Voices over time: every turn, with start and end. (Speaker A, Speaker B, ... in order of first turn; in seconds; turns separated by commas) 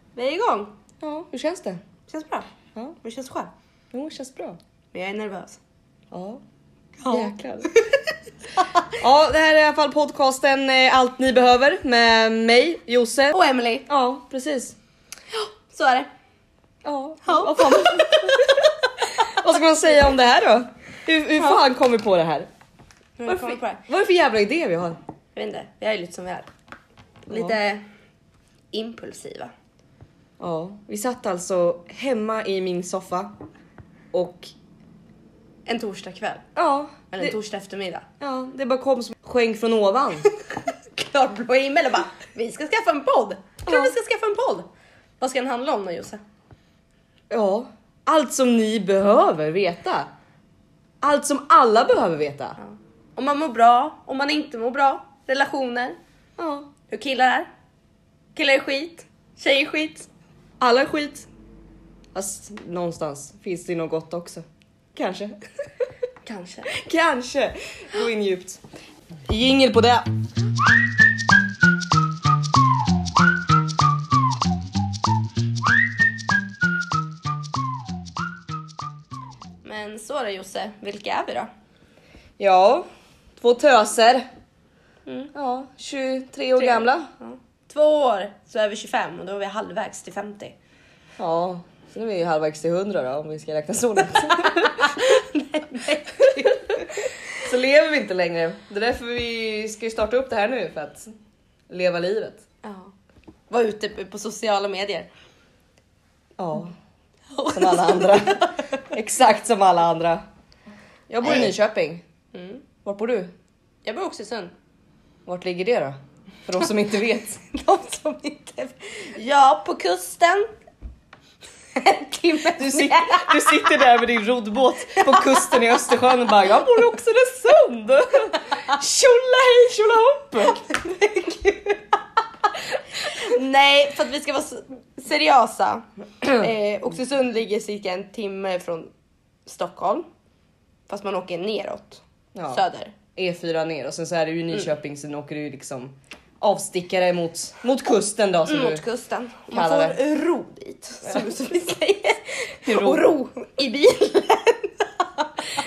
Speaker A: 0.1-0.7, Speaker B: 1.0-1.8, Speaker A: 2.1-2.5, Speaker A: 3.0-3.5, Speaker B: 3.9-4.6, Speaker A: 4.9-5.6, Speaker B: 6.1-6.4, Speaker A: 7.0-8.0, Speaker B: 7.1-7.7, Speaker A: 8.6-8.9, Speaker B: 9.0-14.8, Speaker A: 13.3-13.9, Speaker A: 15.3-16.1, Speaker B: 16.8-18.5, Speaker A: 17.2-18.7, Speaker B: 19.2-22.5, Speaker A: 23.2-23.9, Speaker B: 23.3-25.0, Speaker A: 25.4-26.5, Speaker A: 27.2-27.8, Speaker B: 27.3-27.6, Speaker A: 28.7-29.5, Speaker B: 30.4-33.3, Speaker B: 34.1-34.5, Speaker A: 35.7-36.5, Speaker B: 36.6-37.4, Speaker A: 37.1-38.0, Speaker B: 38.2-40.3, Speaker A: 40.9-44.7, Speaker B: 43.7-43.9, Speaker A: 45.2-46.2, Speaker B: 47.3-50.1, Speaker B: 51.0-52.6, Speaker A: 52.6-56.0, Speaker B: 56.4-56.7, Speaker A: 56.9-57.5, Speaker A: 58.4-60.1, Speaker B: 60.6-61.3, Speaker B: 62.1-65.3, Speaker A: 66.2-66.7, Speaker B: 66.7-68.6, Speaker B: 69.3-70.1, Speaker A: 79.6-81.5, Speaker B: 82.4-82.9, Speaker B: 83.4-84.3, Speaker A: 85.1-85.3, Speaker B: 85.3-87.1, Speaker A: 86.6-90.6, Speaker B: 91.2-94.9, Speaker A: 94.6-97.0, Speaker B: 97.3-101.1, Speaker B: 101.7-102.4, Speaker A: 102.6-102.9, Speaker A: 103.5-105.1, Speaker B: 106.4-106.7, Speaker A: 107.3-108.6, Speaker B: 107.5-110.2, Speaker B: 111.1-112.0, Speaker A: 112.3-112.6, Speaker B: 112.8-113.3, Speaker A: 113.8-114.5, Speaker B: 115.3-117.4, Speaker A: 117.4-120.5, Speaker A: 121.8-123.8, Speaker B: 122.6-130.7, Speaker A: 125.0-125.8, Speaker A: 130.6-132.0, Speaker A: 133.0-138.9, Speaker A: 139.5-140.1, Speaker A: 140.9-142.9, Speaker B: 142.3-142.6, Speaker B: 143.1-148.8, Speaker A: 148.4-155.5, Speaker B: 149.5-150.0, Speaker B: 152.7-153.1